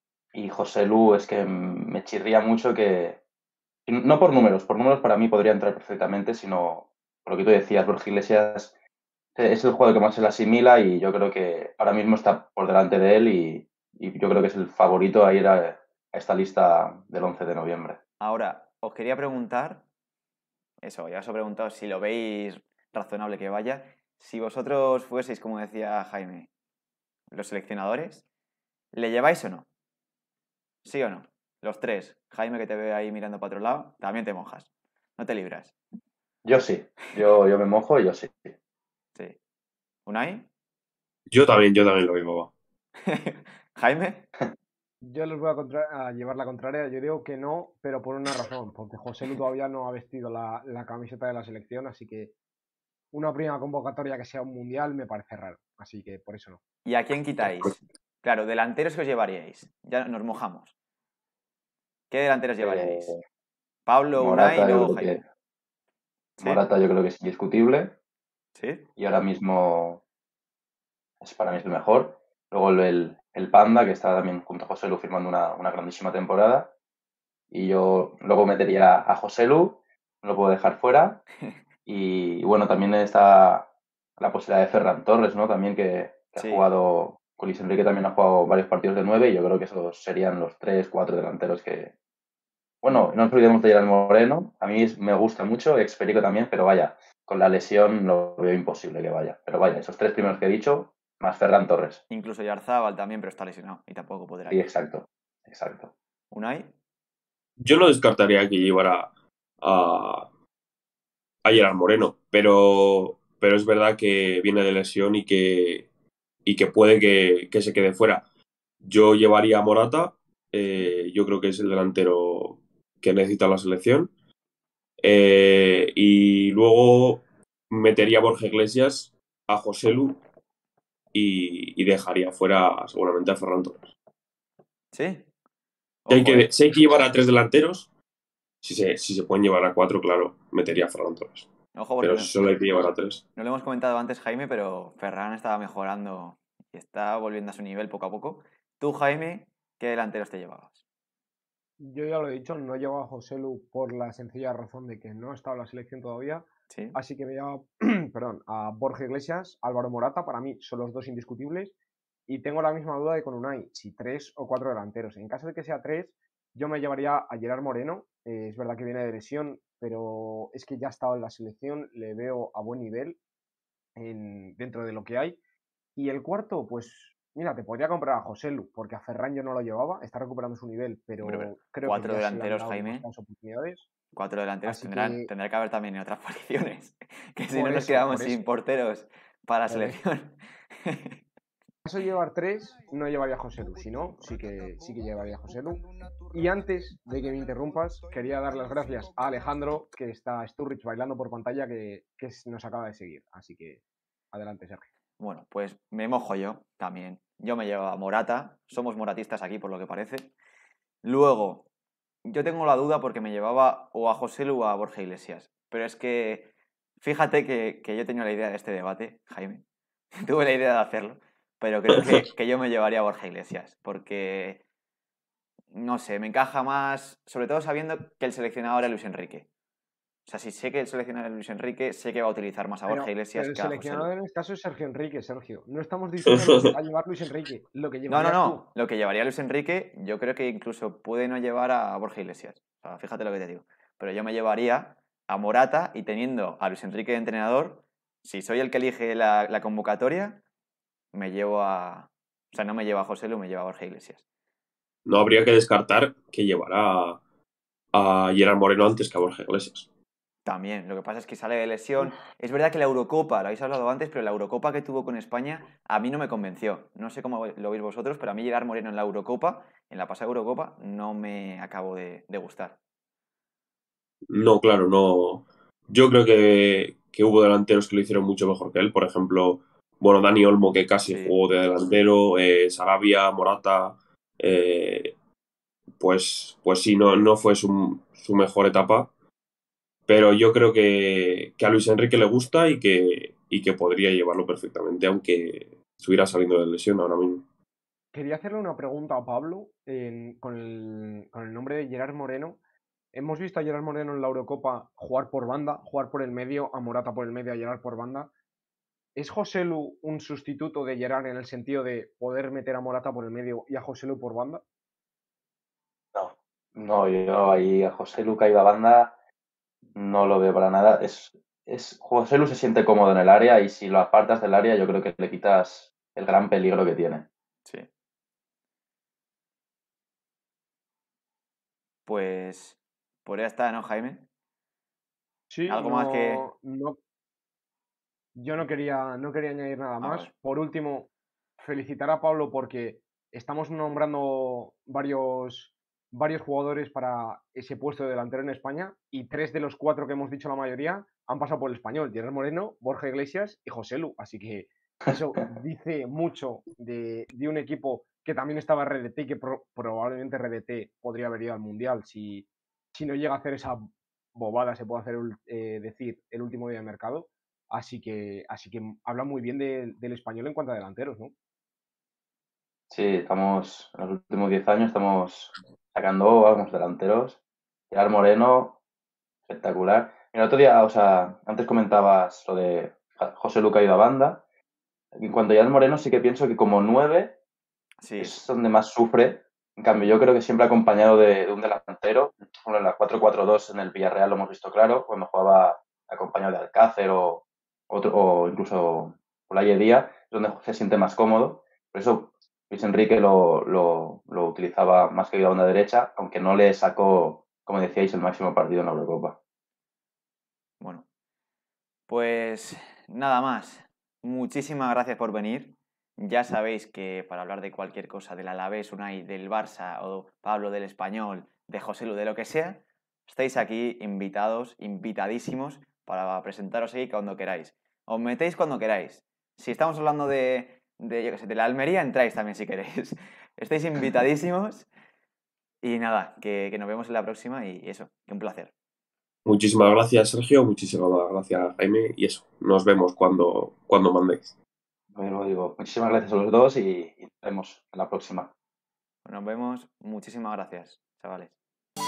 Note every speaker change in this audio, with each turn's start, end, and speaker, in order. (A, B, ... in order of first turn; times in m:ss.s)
0:00.3-0:03.2 A
0:03.9-0:08.7 A
0:09.4-0:18.0 A
0:18.2-0:19.8 B
0:20.8-0:26.5 B
0:27.3-0:28.2 B
0:28.9-0:29.7 B
0:30.8-0:35.7 B
0:36.4-0:38.5 A
0:40.0-0:40.5 B
0:41.3-0:42.5 C
0:43.0-0:44.3 B
0:45.0-0:52.3 D
0:53.1-0:56.6 D
0:56.8-1:00.7 B
1:02.1-1:03.1 B
1:02.6-1:03.2 A
1:03.9-1:05.2 B
1:04.2-1:05.2 A
1:06.4-1:07.9 A
1:08.5-1:08.8 B
1:09.0-1:10.0 A
1:11.2-1:16.7 A
1:17.5-1:21.2 A
1:21.8-1:31.9 A
1:26.4-1:26.6 B
1:32.8-1:42.0 A
1:42.1-1:44.6 B
1:44.5-1:45.9 A
1:46.3-1:46.7 B
1:47.6-1:49.1 C
1:49.6-1:50.3 C
1:51.4-1:55.9 C
1:56.4-1:58.2 C
1:58.8-2:04.1 C
2:05.0-2:10.2 C
2:11.1-2:13.9 C
2:14.9-2:15.3 B
2:16.0-2:16.5 B
2:16.1-2:17.9 C
2:18.6-2:21.4 C
2:21.7-2:22.4 B
2:22.0-2:23.2 C
2:23.4-2:30.8 B
2:31.8-2:41.7 D
2:36.7-2:37.0 B
2:42.3-2:53.2 D
2:54.0-2:55.4 D
2:56.0-3:03.9 D
3:01.2-3:03.0 B
3:04.1-3:11.2 B
3:04.6-3:05.3 D
3:07.5-3:08.4 D
3:09.7-3:10.0 D
3:11.8-3:23.8 D
3:24.3-3:24.9 D
3:25.2-3:30.3 B
3:31.0-3:31.6 B
3:32.2-3:39.6 B
3:40.2-3:44.6 B
3:45.7-3:49.5 B
3:50.2-3:54.1 B
3:52.9-3:58.6 D
3:56.2-3:56.6 C
3:58.1-4:10.4 B
4:11.1-4:14.2 B
4:15.0-4:17.2 C
4:17.9-4:19.9 C
4:20.4-4:32.8 B
4:34.3-4:45.1 C
4:41.0-4:41.3 B
4:46.0-4:49.1 C
4:50.1-4:57.4 C
4:58.1-5:02.6 D
5:03.1-5:08.3 D
5:09.2-5:14.6 D
5:16.1-5:19.1 A
5:19.9-5:27.2 A
5:32.0-5:34.3 B
5:35.5-5:37.0 D
5:35.7-5:36.4 B
5:38.4-5:41.1 D
5:40.0-5:40.3 B
5:41.6-6:11.3 D
6:12.9-6:17.4 A
6:17.9-6:18.8 A
6:19.5-6:24.4 A
6:25.1-6:27.3 A
6:28.0-6:28.4 B
6:28.2-6:49.4 A
6:50.8-6:51.0 B
6:52.1-7:14.9 B
7:15.8-7:18.7 B
7:19.4-7:24.5 C
7:25.1-7:28.5 A
7:29.2-7:31.6 B